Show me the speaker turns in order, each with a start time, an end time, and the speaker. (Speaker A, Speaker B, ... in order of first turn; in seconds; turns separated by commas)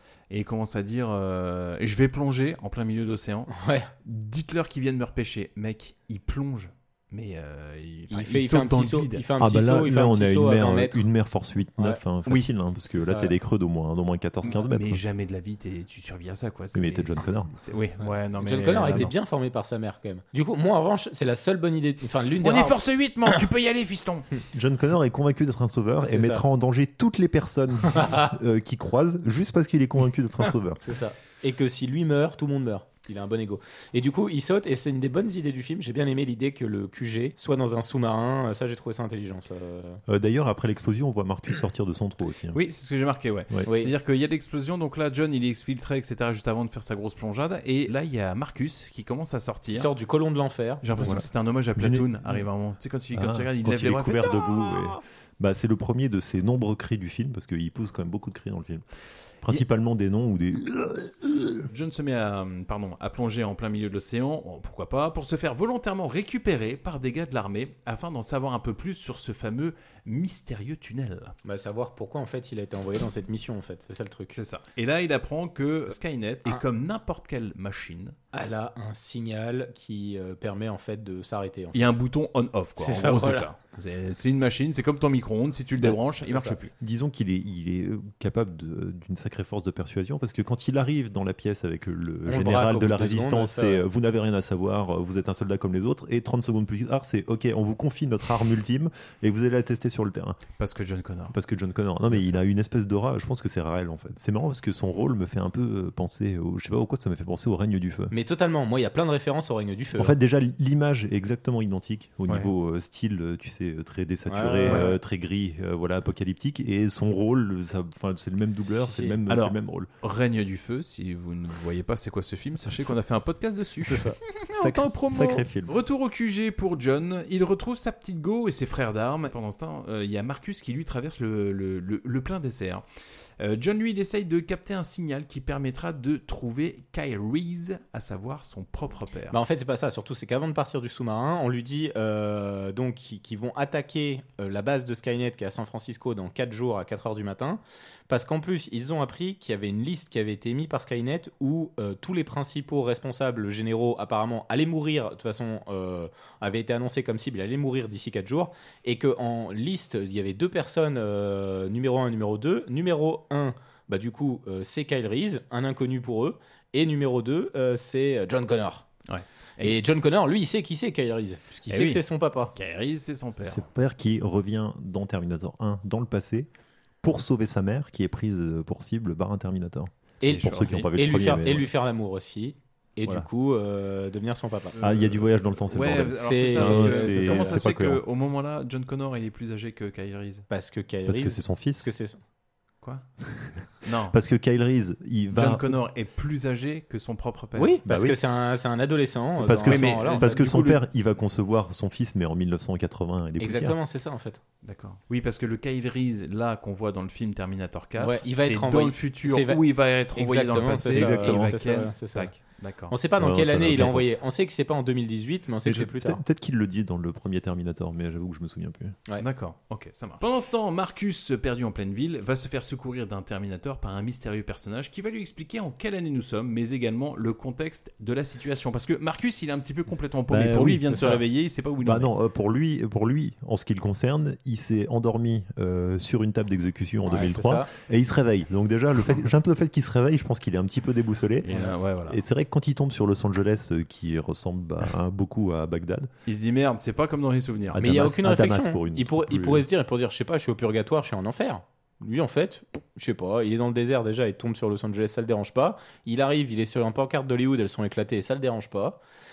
Speaker A: 0.3-3.5, Speaker B: 3.5-3.9, Speaker A: 4.0-9.2, Speaker B: 8.1-11.0, Speaker C: 9.4-15.0, Speaker B: 13.0-13.3, Speaker A: 14.4-19.1, Speaker C: 16.7-17.5, Speaker B: 18.4-22.8, Speaker C: 18.7-19.1, Speaker A: 22.4-24.3, Speaker C: 24.5-30.8, Speaker B: 26.0-26.4, Speaker B: 27.9-28.3, Speaker B: 30.8-40.0, Speaker C: 40.1-42.6, Speaker A: 42.5-49.9, Speaker B: 43.7-43.9, Speaker B: 49.7-51.1, Speaker A: 50.8-54.9, Speaker C: 51.8-52.5, Speaker C: 53.1-58.8, Speaker C: 59.4-61.7, Speaker A: 61.7-71.3, Speaker B: 71.4-74.3, Speaker A: 74.3-78.2, Speaker B: 78.3-82.0, Speaker A: 81.7-86.7, Speaker B: 82.8-83.5, Speaker B: 85.8-86.5, Speaker C: 86.8-100.4, Speaker B: 92.3-93.8, Speaker A: 100.6-101.3, Speaker C: 101.3-108.1, Speaker B: 108.1-110.2, Speaker C: 110.0-119.9, Speaker B: 114.3-114.9, Speaker A: 114.7-114.9, Speaker B: 118.6-119.2, Speaker A: 119.3-132.8, Speaker B: 123.9-124.2, Speaker C: 124.5-125.7, Speaker A: 133.4-139.4, Speaker B: 139.3-168.8, Speaker A: 169.1-169.8, Speaker B: 169.6-172.5, Speaker A: 171.7-172.0, Speaker A: 172.5-173.6, Speaker C: 173.4-176.5, Speaker C: 177.0-181.7, Speaker B: 180.2-184.8, Speaker A: 180.2-180.9, Speaker A: 184.8-190.4, Speaker C: 184.8-188.0, Speaker B: 186.2-187.6, Speaker B: 190.5-192.2, Speaker C: 191.1-191.9, Speaker C: 193.3-193.6, Speaker A: 193.8-194.2, Speaker C: 194.1-195.8, Speaker A: 195.3-197.8, Speaker B: 197.6-200.4, Speaker C: 197.8-198.2, Speaker C: 199.4-203.8, Speaker A: 199.7-200.8, Speaker B: 203.4-204.4, Speaker A: 204.6-212.9, Speaker B: 208.0-212.3, Speaker C: 210.9-211.6, Speaker B: 212.9-216.2, Speaker C: 213.2-214.2, Speaker C: 215.6-218.9, Speaker A: 219.2-232.1, Speaker C: 230.3-231.2, Speaker C: 231.8-241.5, Speaker B: 237.1-237.7, Speaker A: 241.4-242.2, Speaker C: 242.1-246.1, Speaker A: 246.2-247.8, Speaker C: 247.7-249.7, Speaker B: 247.8-259.0